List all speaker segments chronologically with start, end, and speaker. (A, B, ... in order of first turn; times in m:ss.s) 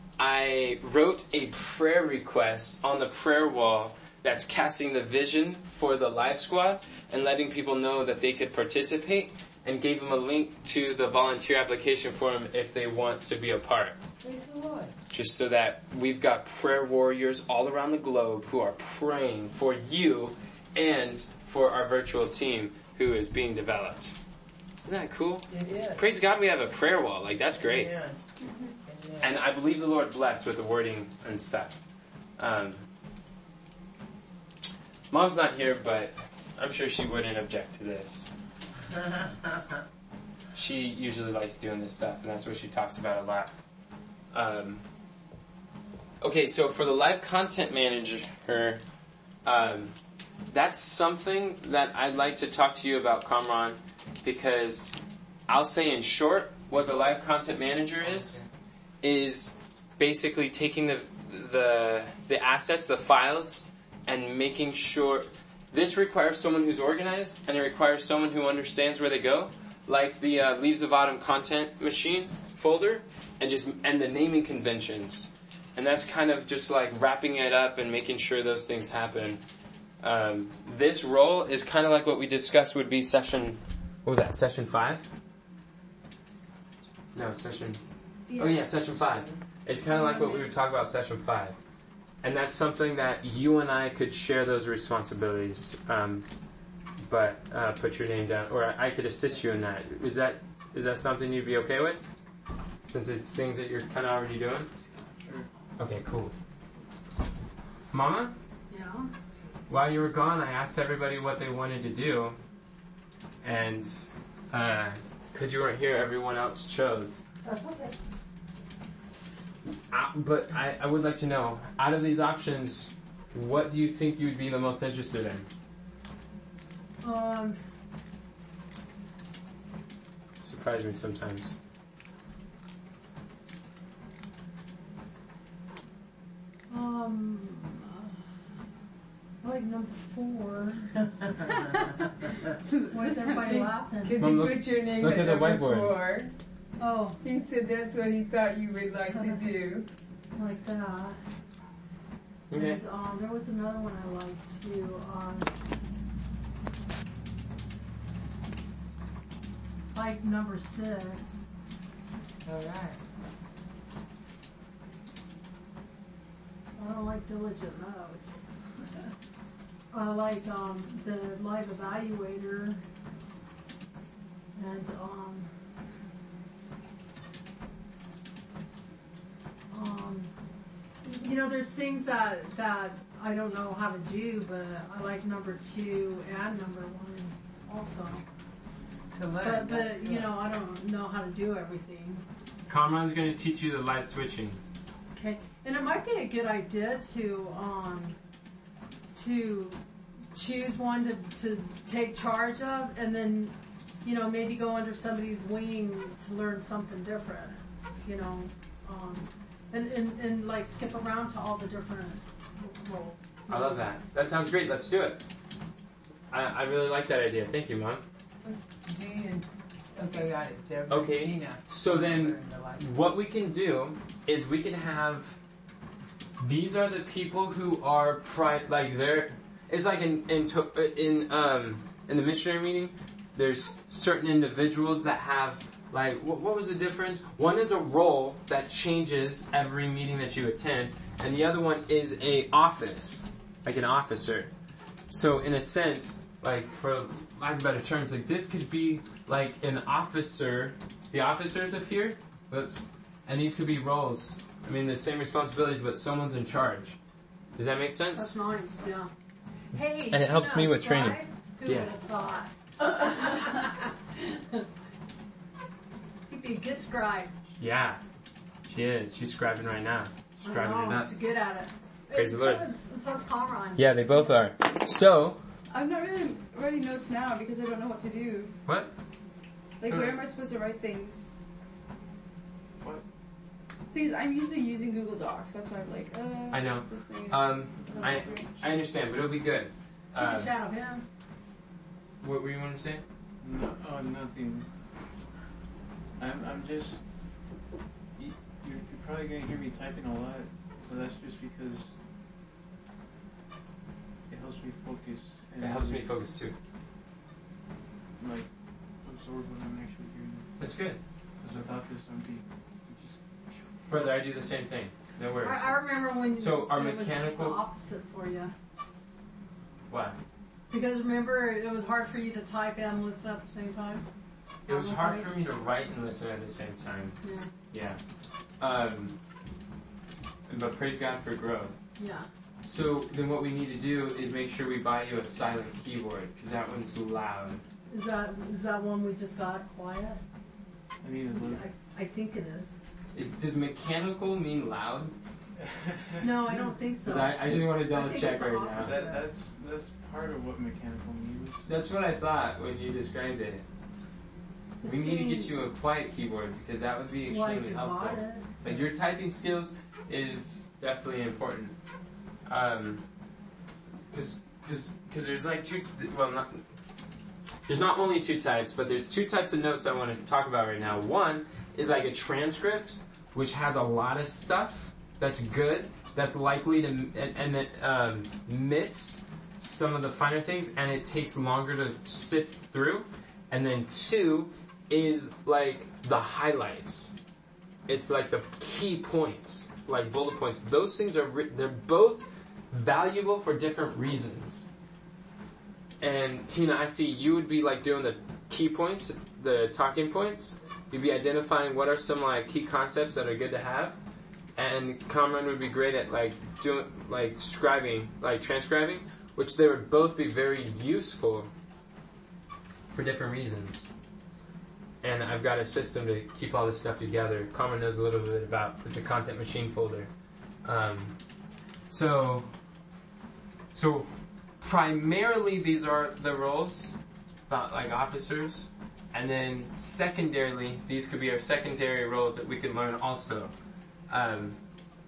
0:00.2-0:14.0 A
0:14.2-0:15.0 B
0:15.1-0:24.2 A
0:24.8-0:27.9 A
0:25.5-0:26.2 B
0:27.6-0:28.2 B
0:28.4-0:28.8 C
0:28.8-0:29.4 B
0:29.2-0:31.7 A
0:32.4-0:32.8 A
0:35.1-0:38.3 A
0:40.5-0:43.5 A
0:44.3-0:44.8 A
0:46.2-0:48.8 A
0:49.4-0:49.9 A
0:50.5-0:55.0 A
0:55.5-0:58.4 A
0:56.9-0:57.1 D
0:58.0-0:58.5 D
0:59.0-1:19.4 A
1:20.0-1:25.0 A
1:27.1-1:27.8 A
1:28.3-1:28.6 C
1:28.4-1:31.6 A
1:29.9-1:30.5 C
1:32.2-1:36.2 A
1:37.0-1:42.0 A
1:42.8-1:44.7 A
1:45.2-1:45.5 D
1:45.8-1:46.3 A
1:47.9-1:48.3 A
1:48.7-1:49.1 E
1:49.7-1:52.4 A
1:53.4-1:57.2 A
1:57.4-1:57.9 E
1:59.9-2:05.5 A
2:07.0-2:07.6 E
2:10.4-2:11.6 A
2:16.7-2:18.2 E
2:19.4-2:21.0 E
2:22.7-2:23.7 C
2:22.9-2:24.2 E
2:24.0-2:26.3 B
2:24.2-2:25.9 A
2:26.8-2:27.2 E
2:27.2-2:29.9 B
2:29.1-2:29.4 E
2:30.3-2:31.2 E
2:32.5-2:32.8 A
2:32.5-2:35.5 E
2:39.9-2:41.5 E
2:42.4-2:43.0 B
2:46.8-2:48.4 E
2:49.9-2:52.8 E
2:54.6-2:55.5 E
2:59.7-3:00.3 E
3:01.0-3:08.2 E
3:09.1-3:10.3 B
3:09.4-3:12.2 E
3:12.7-3:14.6 A
3:15.2-3:18.2 E
3:19.2-3:19.8 E
3:20.3-3:33.8 E
3:33.5-3:35.2 A
3:36.3-3:38.0 A
3:38.4-3:42.9 B
3:40.9-3:45.4 A
3:46.4-4:04.5 A
4:05.1-4:17.0 A
4:17.6-4:18.4 A
4:18.1-4:19.1 E
4:19.7-4:24.6 E
4:20.1-4:21.9 A
4:26.3-4:27.3 E
4:27.6-4:28.0 A
4:28.7-4:31.1 A
4:30.4-4:33.9 E
4:32.1-4:32.6 A
4:33.8-4:35.4 A
4:35.7-4:38.6 C
4:38.7-4:38.9 A
4:39.8-4:41.3 C
4:39.8-4:40.2 A
4:42.8-4:43.0 D
4:43.9-4:48.5 C
4:46.5-4:50.5 A
4:47.8-4:48.5 D
4:50.1-4:51.0 E
4:52.2-4:53.0 A
4:53.4-4:54.7 D
4:56.2-4:57.0 D
4:58.2-5:02.0 D
5:04.3-5:06.1 D
5:05.6-5:06.6 A
5:08.2-5:08.5 D
5:09.0-5:10.5 D
5:10.6-5:11.0 A
5:11.4-5:13.7 D
5:13.9-5:15.8 A
5:15.4-5:18.5 E
5:16.4-5:17.6 A
5:19.9-5:20.2 A
5:20.7-5:24.0 E
5:24.7-5:27.2 A
5:24.7-5:25.3 E
5:27.2-5:27.5 E
5:27.7-5:28.0 A
5:28.6-5:29.2 A
5:30.5-5:31.8 A
5:32.0-5:32.3 E
5:32.6-5:37.6 A
5:37.9-5:40.2 E
5:41.0-5:41.6 D
5:41.3-5:42.8 E
5:43.1-5:45.1 A
5:45.6-5:46.5 D
5:46.2-5:49.2 E
5:47.0-5:48.9 A
5:48.7-5:51.7 D
5:51.7-5:53.6 A
5:54.8-5:55.6 E
5:54.8-6:01.8 A
5:57.3-5:58.8 E
6:02.5-6:03.0 A
6:04.1-6:06.6 A
6:07.7-6:27.1 A
6:27.9-6:34.7 A
6:36.0-6:44.0 A
6:44.6-6:51.5 A
6:52.9-6:53.9 A
6:55.0-7:00.1 A
7:00.6-7:01.2 A
7:01.9-7:02.5 A
7:03.7-7:06.9 A
7:07.5-7:13.5 A
7:14.1-7:14.6 A